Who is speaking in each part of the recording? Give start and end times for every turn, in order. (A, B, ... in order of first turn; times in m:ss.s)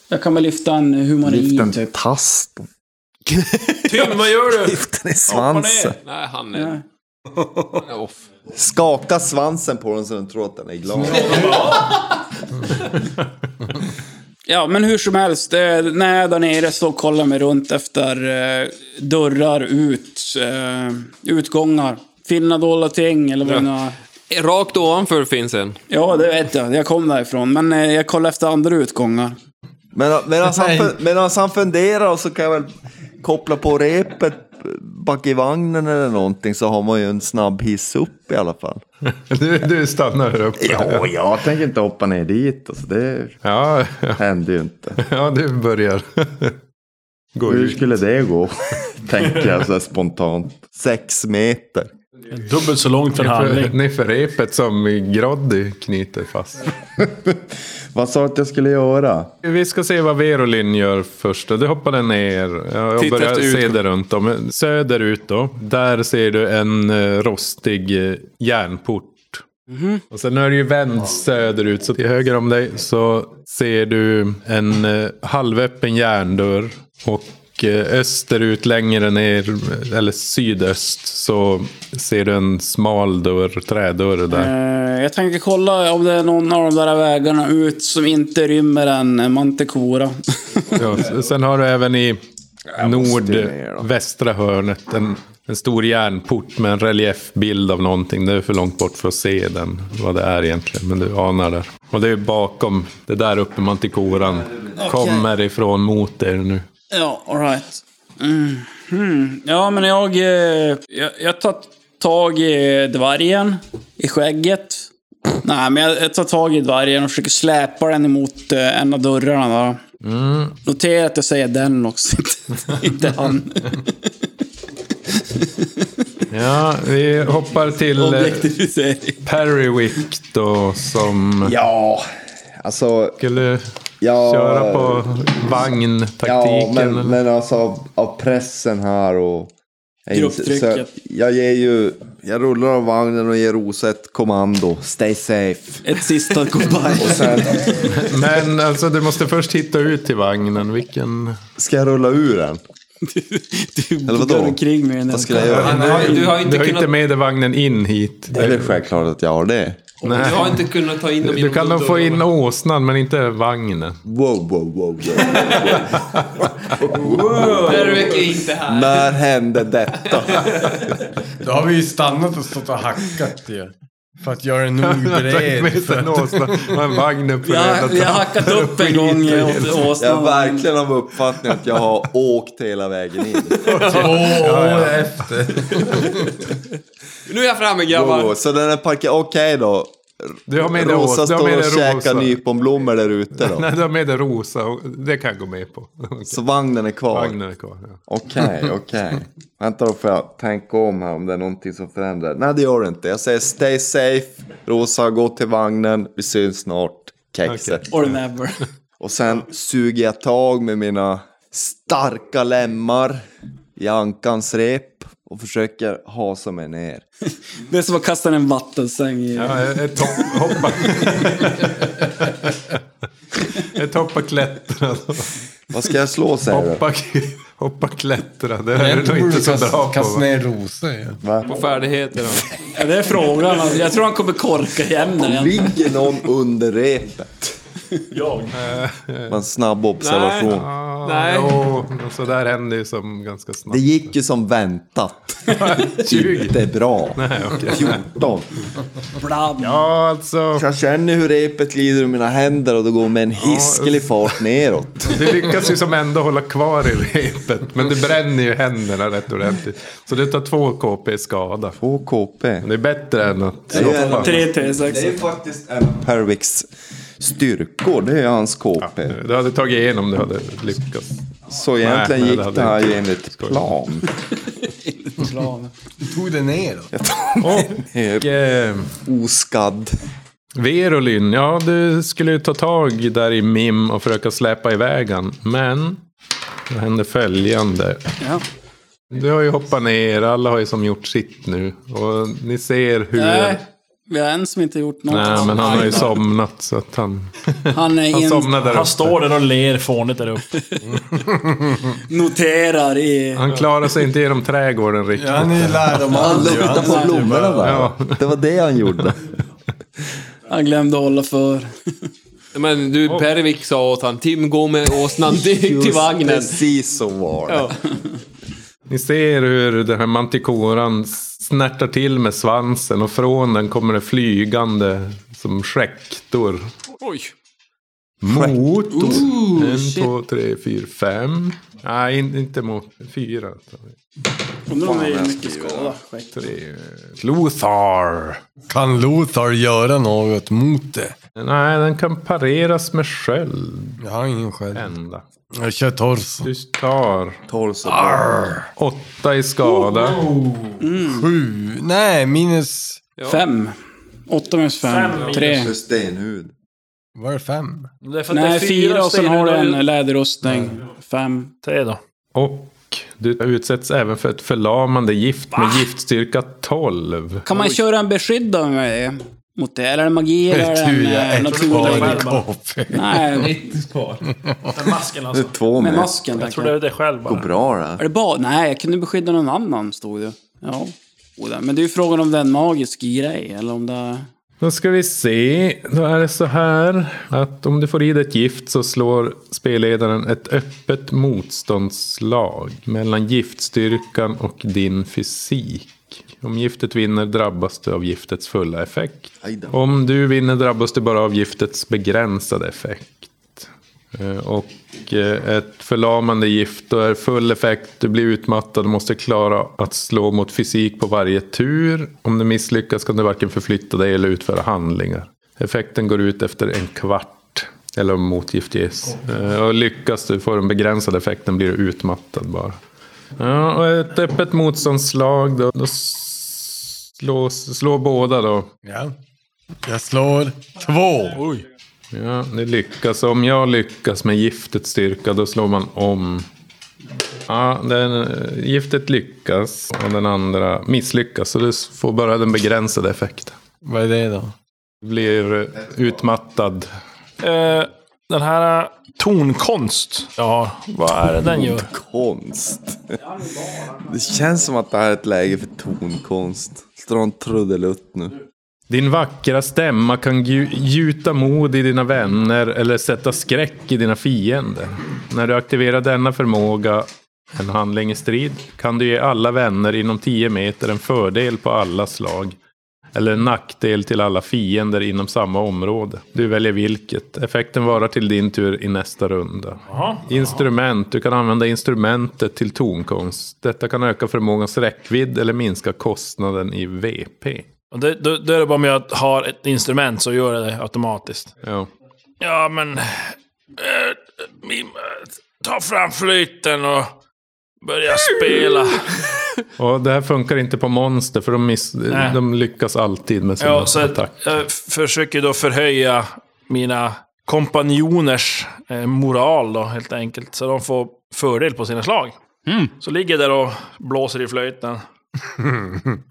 0:00.1-0:01.9 A
0:01.2-0:02.7 B
0:03.8-0:05.9 C
0:04.6-0:06.0 B
0:06.0-0:06.8 D
0:06.5-0:06.8 A
0:07.8-0:08.2 D
0:08.5-0:11.5 B
0:11.0-0:11.8 E
0:11.1-0:11.9 C
0:11.4-0:12.0 D
0:14.5-0:23.9 A
0:24.3-0:25.8 D
0:25.9-0:29.3 A
0:29.9-0:38.8 B
0:30.5-0:30.9 E
0:39.0-0:41.1 F
0:40.6-0:43.4 B
0:43.4-0:44.2 F
0:44.2-0:45.0 B
0:45.0-0:46.6 F
0:47.3-0:47.8 F
0:47.4-0:51.9 B
0:52.3-0:53.8 C
0:53.2-0:56.7 F
0:57.0-0:59.3 B
0:59.4-1:09.4 F
1:03.0-1:03.8 D
1:09.7-1:10.0 A
1:10.1-1:24.5 F
1:24.3-1:30.8 A
1:30.7-1:32.2 F
1:32.6-1:33.9 B
1:32.8-1:46.6 F
1:44.1-1:45.3 B
1:46.9-1:54.9 A
1:55.4-1:59.8 A
2:00.0-2:00.6 F
2:00.6-2:04.1 A
2:05.1-2:06.2 A
2:06.3-2:08.5 F
2:07.9-2:09.2 A
2:09.2-2:11.5 F
2:11.4-2:13.2 B
2:13.2-2:13.6 F
2:14.0-2:15.7 B
2:14.2-2:17.2 F
2:16.2-2:19.5 B
2:20.0-2:25.8 B
2:20.1-2:20.9 A
2:25.8-2:27.5 A
2:26.6-2:27.9 B
2:27.9-2:31.4 F
2:31.6-2:32.6 B
2:33.0-2:36.3 A
2:34.0-2:36.0 B
2:35.4-2:38.8 F
2:35.5-2:36.2 E
2:35.7-2:36.9 D
2:38.3-2:39.9 B
2:40.0-2:40.4 A
2:40.0-2:40.7 F
2:40.1-2:42.2 D
2:41.2-2:44.0 F
2:44.0-2:50.9 B
2:45.7-2:46.5 F
2:46.9-2:48.2 A
2:47.6-2:49.2 D
2:50.0-2:50.9 D
2:51.4-2:56.8 E
2:54.8-2:59.9 F
2:57.4-3:00.6 A
3:00.0-3:03.7 B
3:03.6-3:05.8 F
3:03.7-3:06.3 E
3:03.7-3:04.4 D
3:05.7-3:06.0 D
3:07.2-3:08.4 D
3:07.9-3:13.7 B
3:10.5-3:12.4 F
3:13.4-3:16.4 F
3:16.3-3:17.4 B
3:17.1-3:18.0 F
3:18.1-3:27.9 B
3:27.4-3:28.0 F
3:27.9-3:28.6 A
3:29.0-3:33.2 B
3:33.8-3:37.0 B
3:37.6-3:40.6 A
3:39.4-3:41.9 F
3:43.4-3:45.4 F
3:45.7-3:46.8 B
3:46.5-3:50.3 F
3:48.7-3:51.2 E
3:51.2-3:51.6 B
3:51.4-3:52.4 D
3:52.7-3:55.8 A
3:55.2-3:57.6 B
3:58.1-3:58.5 C
3:58.5-3:59.4 F
3:59.3-4:00.7 B
4:00.0-4:01.6 D
4:00.5-4:04.0 F
4:03.7-4:08.5 B
4:05.5-4:06.5 F
4:07.2-4:08.0 F
4:09.2-4:09.8 A
4:09.6-4:10.6 F
4:10.5-4:15.3 B
4:13.4-4:14.3 F
4:15.0-4:21.8 F
4:21.8-4:22.7 B
4:22.6-4:24.4 F
4:23.7-4:26.7 B
4:23.7-4:25.2 A
4:27.2-4:29.2 B
4:28.8-4:31.2 F
4:31.5-4:34.1 B
4:31.8-4:33.7 F
4:34.6-4:35.7 A
4:36.0-4:36.9 E
4:36.9-4:38.3 B
4:37.4-4:39.0 F
4:39.0-4:40.0 B
4:40.6-4:46.0 F
4:46.7-4:48.0 F
4:49.1-4:53.6 F
4:53.1-4:56.1 A
4:55.1-4:59.2 F
4:55.6-4:56.1 D
4:57.7-4:58.5 A
4:58.6-5:00.5 C
5:00.8-5:02.0 E
5:02.0-5:03.4 A
5:03.4-5:06.1 F
5:05.2-5:07.6 E
5:06.1-5:07.3 A
5:06.2-5:09.2 B
5:07.6-5:08.2 F
5:10.5-5:11.7 A
5:12.5-5:16.6 D
5:15.2-5:17.8 B
5:17.5-5:17.7 D
5:18.9-5:26.7 F
5:27.0-5:27.3 D
5:28.2-5:33.9 F
5:28.2-5:29.4 B
5:34.6-5:36.3 A
5:34.8-5:35.9 B
5:36.4-5:38.4 F
5:38.7-5:41.1 E
5:41.4-5:44.0 F
5:44.0-5:44.9 E
5:44.7-5:45.2 F
5:45.6-5:46.5 E
5:46.4-5:47.4 F
5:47.5-5:48.5 B
5:47.8-5:48.7 E
5:48.8-5:50.3 F
5:50.8-5:51.3 A
5:51.0-5:53.0 E
5:53.2-5:53.4 D
5:53.2-5:53.8 A
5:54.3-5:55.7 A
5:54.8-5:55.7 C
5:55.3-5:56.5 B
5:57.2-5:57.9 E
5:58.0-5:59.8 C
5:58.3-6:01.5 A
6:00.5-6:00.7 E
6:01.6-6:02.0 C
6:02.3-6:07.4 F
6:05.5-6:05.8 C
6:07.4-6:12.3 A
6:10.5-6:13.5 E
6:11.5-6:12.4 C
6:12.9-6:13.7 A
6:13.4-6:14.2 D
6:14.2-6:14.7 E
6:14.7-6:15.5 C
6:15.3-6:16.2 B
6:15.8-6:16.7 A
6:16.3-6:17.5 C
6:17.2-6:18.0 B
6:18.0-6:24.3 A
6:24.6-7:02.8 F
6:39.4-6:39.8 B
7:03.4-7:08.7 F
7:08.8-7:09.1 E
7:09.8-7:11.5 E
7:12.1-7:16.5 F
7:17.5-7:23.6 F
7:23.8-7:24.5 E
7:25.0-7:26.9 F
7:27.4-7:31.9 C
7:31.4-7:33.2 B
7:33.2-7:34.4 A
7:34.1-7:38.4 B
7:38.9-7:52.6 F
7:53.1-8:07.7 F
7:59.9-8:00.6 C
8:07.9-8:11.5 C
8:11.6-8:11.9 F
8:12.4-8:17.1 C
8:17.8-8:19.3 C
8:19.8-8:24.3 F
8:22.1-8:22.4 C
8:23.6-8:32.3 C
8:33.0-8:35.0 C
8:35.6-8:36.2 E